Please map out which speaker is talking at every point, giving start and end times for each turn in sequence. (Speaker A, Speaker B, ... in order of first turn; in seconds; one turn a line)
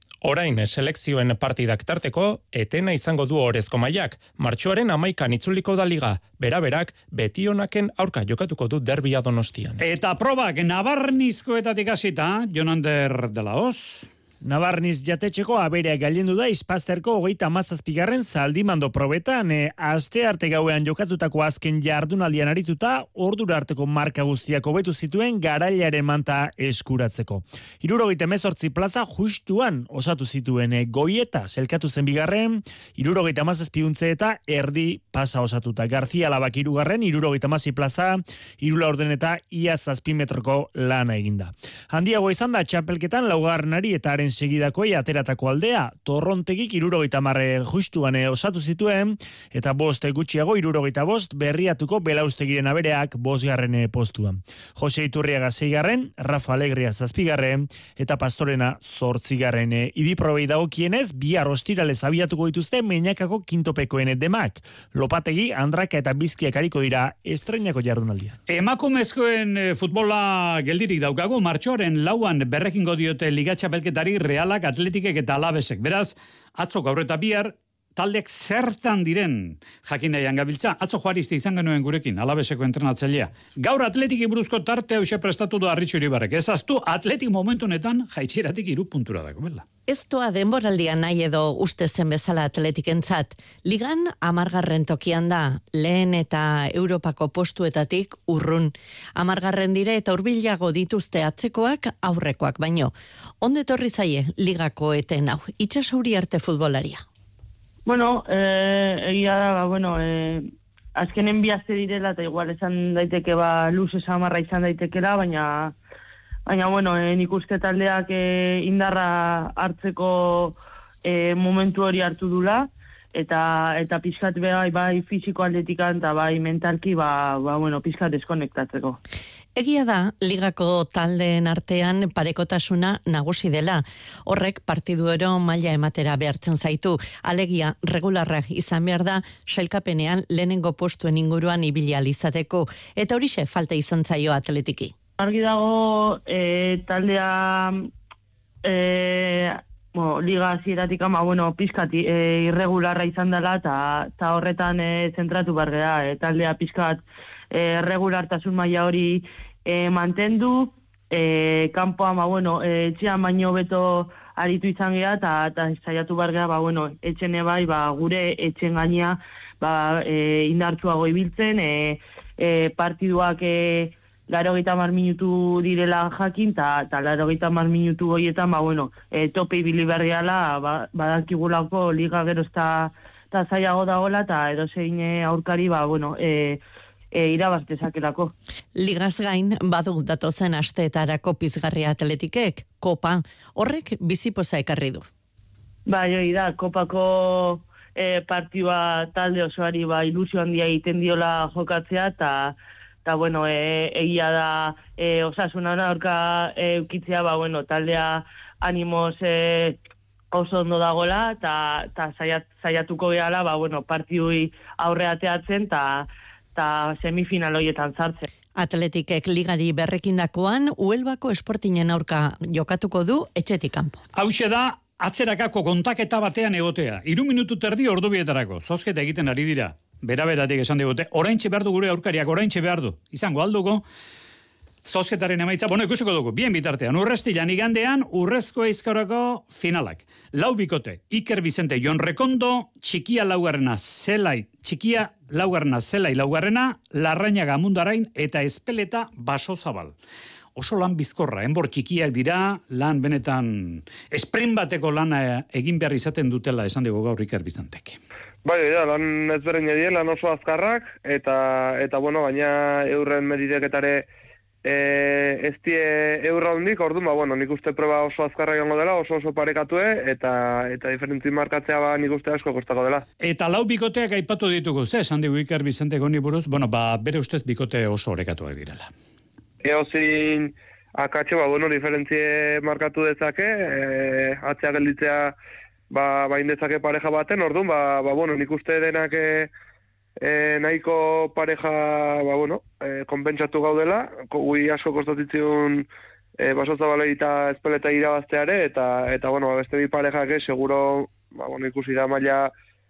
Speaker A: 0.2-9.8
Speaker B: 9.8-14.1
Speaker C: 14.4-68.4
Speaker B: 68.5-89.6
Speaker D: 89.9-107.0
Speaker E: 107.8-115.7
Speaker E: 116.5-129.0
Speaker D: 129.6-144.9
Speaker E: 145.2-147.9
Speaker E: 148.6-186.6
Speaker E: 187.1-188.3
Speaker D: 188.8-195.1
Speaker E: 195.9-209.8
Speaker E: 210.3-218.3
Speaker D: 218.6-224.0
Speaker B: 224.1-233.8
Speaker B: 234.8-249.9
Speaker B: 250.6-258.0
Speaker F: 258.4-264.1
Speaker F: 264.6-273.0
Speaker B: 273.2-278.9
Speaker F: 279.6-285.3
Speaker F: 285.9-289.5
Speaker F: 290.2-295.9
Speaker F: 296.4-302.5